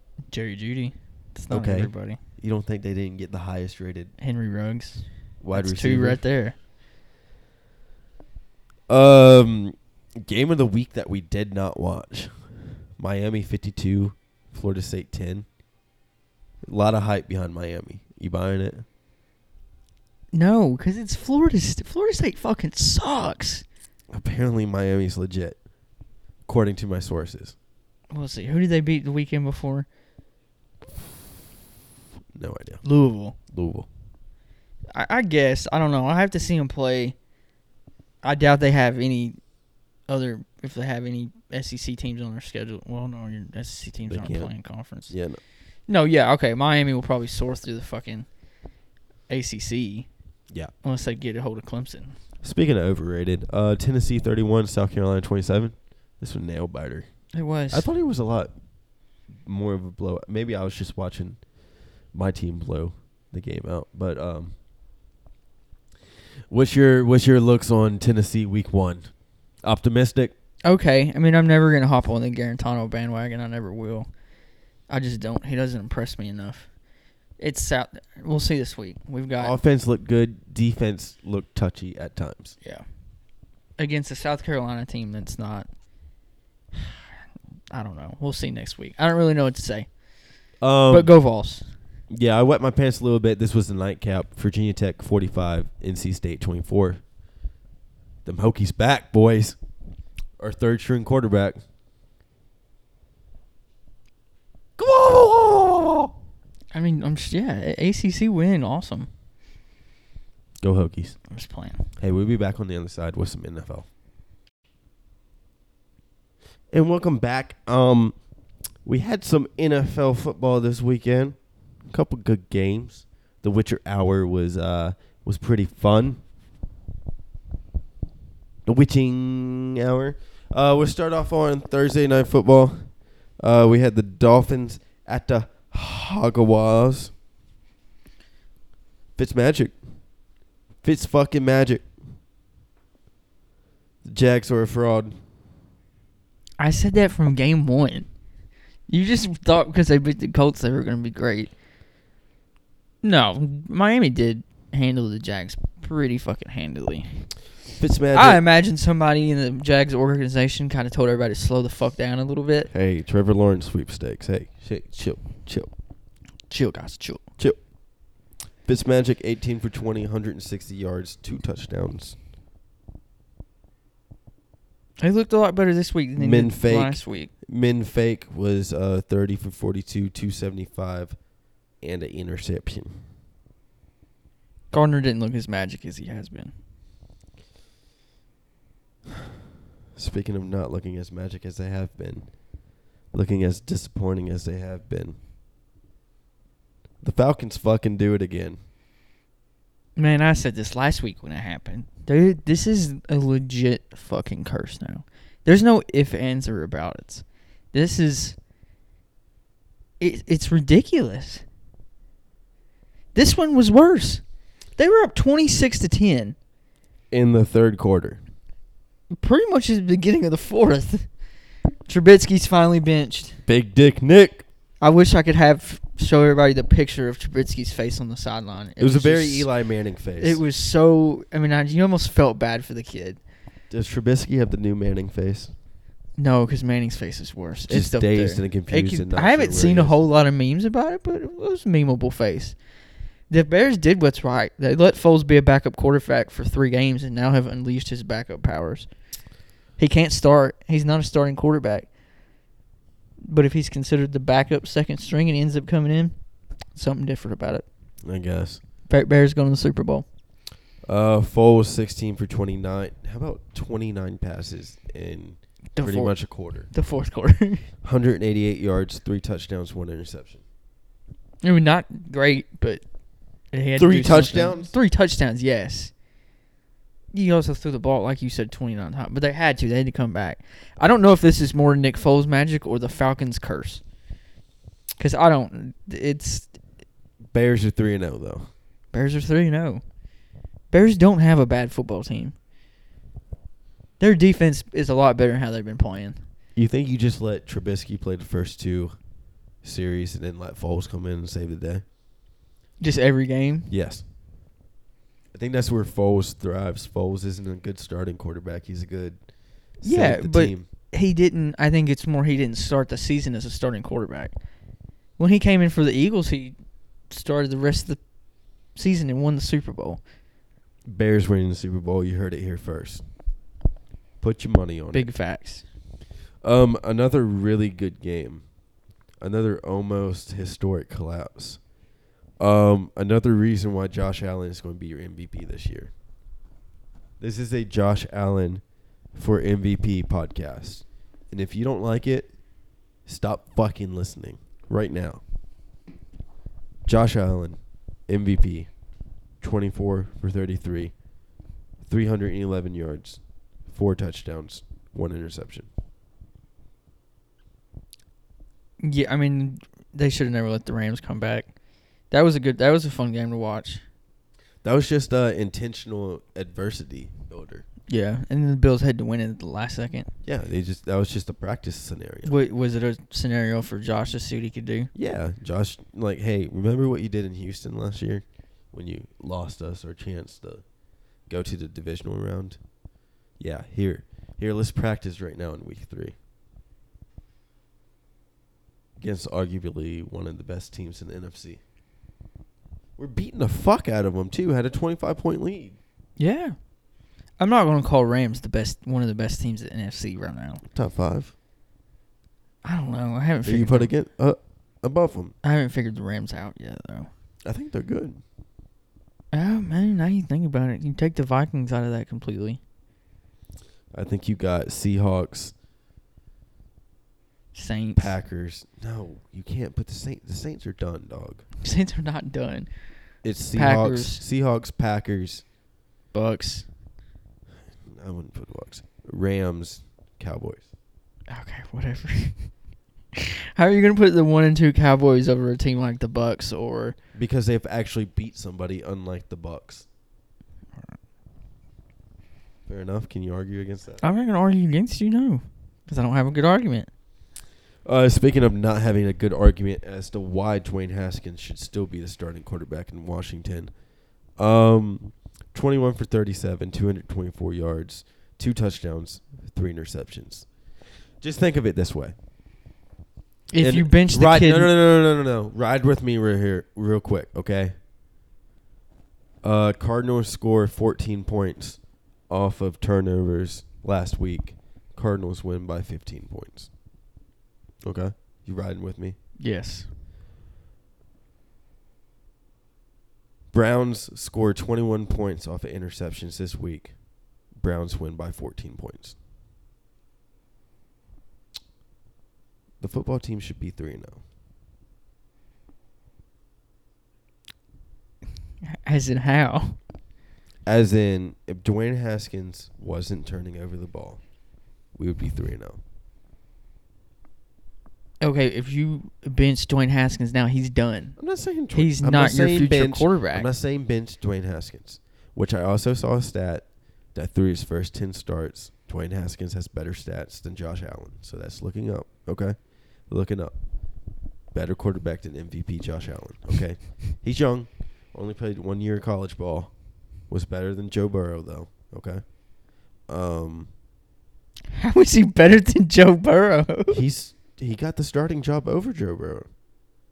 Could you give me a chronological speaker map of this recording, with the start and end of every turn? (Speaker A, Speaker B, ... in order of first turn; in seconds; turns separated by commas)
Speaker A: 0.3-2.2, Speaker B: 1.5-4.1, Speaker A: 4.2-6.6, Speaker B: 5.4-6.2, Speaker B: 8.9-15.5, Speaker B: 16.7-18.9, Speaker A: 20.3-23.6, Speaker B: 24.1-25.6, Speaker B: 26.5-27.6, Speaker A: 28.1-29.9, Speaker B: 32.4-32.8, Speaker A: 32.8-33.4, Speaker B: 33.5-33.9, Speaker A: 34.9-37.2, Speaker A: 38.2-39.4, Speaker A: 40.1-45.1, Speaker B: 44.1-44.5, Speaker B: 45.1-45.4, Speaker A: 45.9-48.3, Speaker A: 49.3-50.1, Speaker A: 50.8-52.2, Speaker B: 52.4-57.1, Speaker A: 57.3-57.9, Speaker B: 57.7-58.5, Speaker B: 59.4-61.4, Speaker B: 62.1-64.5, Speaker B: 66.5-69.1, Speaker B: 69.6-70.3, Speaker A: 70.7-74.1, Speaker A: 74.9-76.7, Speaker A: 77.4-79.6, Speaker B: 79.4-82.5, Speaker A: 83.8-85.7, Speaker A: 87.7-89.9, Speaker B: 90.6-91.1, Speaker A: 90.9-91.7, Speaker B: 92.1-97.0, Speaker B: 98.2-99.6, Speaker B: 100.4-101.6, Speaker B: 104.8-106.1, Speaker A: 106.7-109.1, Speaker B: 110.6-111.2, Speaker A: 111.3-111.9, Speaker B: 112.0-113.9, Speaker B: 116.7-118.2, Speaker B: 118.8-121.4, Speaker B: 121.9-126.2, Speaker B: 128.7-132.9, Speaker B: 133.4-137.1, Speaker B: 139.2-139.8, Speaker B: 140.8-141.9, Speaker B: 144.1-145.2, Speaker A: 146.6-148.1, Speaker A: 148.9-151.5, Speaker A: 153.0-157.2, Speaker B: 157.7-158.4, Speaker A: 158.1-162.7, Speaker B: 162.7-165.7, Speaker A: 166.5-167.2, Speaker B: 168.7-172.2, Speaker A: 175.0-177.3, Speaker B: 176.2-181.2, Speaker B: 181.8-183.0, Speaker A: 184.7-186.5, Speaker B: 189.9-192.3, Speaker B: 193.1-195.2, Speaker B: 197.0-198.6, Speaker A: 200.0-208.4, Speaker A: 210.0-211.4, Speaker A: 213.1-214.2, Speaker A: 214.8-216.4, Speaker B: 217.1-218.2, Speaker A: 219.1-221.1, Speaker A: 221.9-223.4, Speaker B: 223.5-224.5, Speaker A: 224.8-229.5, Speaker B: 228.8-230.4, Speaker A: 230.2-233.2, Speaker B: 233.7-235.5, Speaker A: 236.2-242.6, Speaker B: 237.7-240.0, Speaker A: 243.3-248.9, Speaker A: 249.8-251.9, Speaker A: 253.2-256.1, Speaker A: 256.8-257.6, Speaker B: 258.1-258.6, Speaker A: 258.9-260.1, Speaker B: 260.9-266.7, Speaker A: 265.8-267.7, Speaker B: 267.8-270.4, Speaker A: 271.4-272.8, Speaker A: 273.5-275.9, Speaker B: 273.8-274.7, Speaker A: 277.1-283.8, Speaker A: 285.0-286.6, Speaker B: 287.3-288.5, Speaker A: 288.9-289.8, Speaker A: 290.7-292.4, Speaker A: 294.0-296.2, Speaker B: 296.6-298.9, Speaker B: 299.6-301.8, Speaker A: 302.8-303.7, Speaker B: 303.7-304.0, Speaker B: 305.3-309.2, Speaker B: 309.8-310.7, Speaker A: 309.8-314.3, Speaker A: 315.2-316.6, Speaker A: 317.1-318.0, Speaker A: 318.8-320.0, Speaker B: 320.9-323.0, Speaker B: 324.2-325.1, Speaker A: 324.9-325.6, Speaker B: 326.4-328.4, Speaker B: 329.2-331.6, Speaker B: 332.4-335.9, Speaker B: 337.2-338.6, Speaker B: 339.1-342.3, Speaker B: 343.1-345.2, Speaker B: 346.9-348.7, Speaker B: 349.4-350.9, Speaker B: 351.9-355.7, Speaker A: 358.8-361.5, Speaker A: 362.1-363.8, Speaker B: 364.6-367.7, Speaker A: 367.9-370.1, Speaker B: 370.2-372.4, Speaker A: 372.2-374.9, Speaker B: 374.9-380.6, Speaker B: 381.3-382.6, Speaker B: 383.4-386.1, Speaker B: 389.0-391.6, Speaker B: 393.0-395.8, Speaker A: 396.2-396.6, Speaker A: 397.4-400.6, Speaker B: 400.7-401.3, Speaker A: 402.6-403.9, Speaker B: 403.4-405.3, Speaker A: 405.4-407.1, Speaker B: 407.4-408.2, Speaker A: 409.3-412.6, Speaker B: 413.9-415.5, Speaker A: 417.5-418.1, Speaker B: 418.0-421.4, Speaker A: 421.6-422.7, Speaker B: 423.2-425.4, Speaker A: 423.6-424.2, Speaker A: 426.1-426.7, Speaker B: 427.9-430.6, Speaker A: 431.3-432.5, Speaker A: 433.2-437.0, Speaker B: 437.1-439.9, Speaker B: 442.7-444.0, Speaker A: 444.0-446.9, Speaker B: 447.9-453.7, Speaker B: 454.4-460.5, Speaker B: 461.2-462.1, Speaker A: 463.5-464.7, Speaker B: 463.6-467.7, Speaker B: 469.4-476.7, Speaker B: 477.8-479.2, Speaker A: 479.4-479.9, Speaker B: 483.5-486.9, Speaker B: 487.5-489.2, Speaker B: 492.8-494.2, Speaker A: 498.6-499.8, Speaker B: 500.7-504.2, Speaker B: 505.0-505.8, Speaker A: 508.2-511.2, Speaker B: 511.2-522.6, Speaker A: 511.7-513.5, Speaker B: 523.1-523.5, Speaker B: 524.5-529.7, Speaker B: 530.3-532.2, Speaker B: 533.1-533.7, Speaker A: 534.7-537.0, Speaker B: 536.9-539.5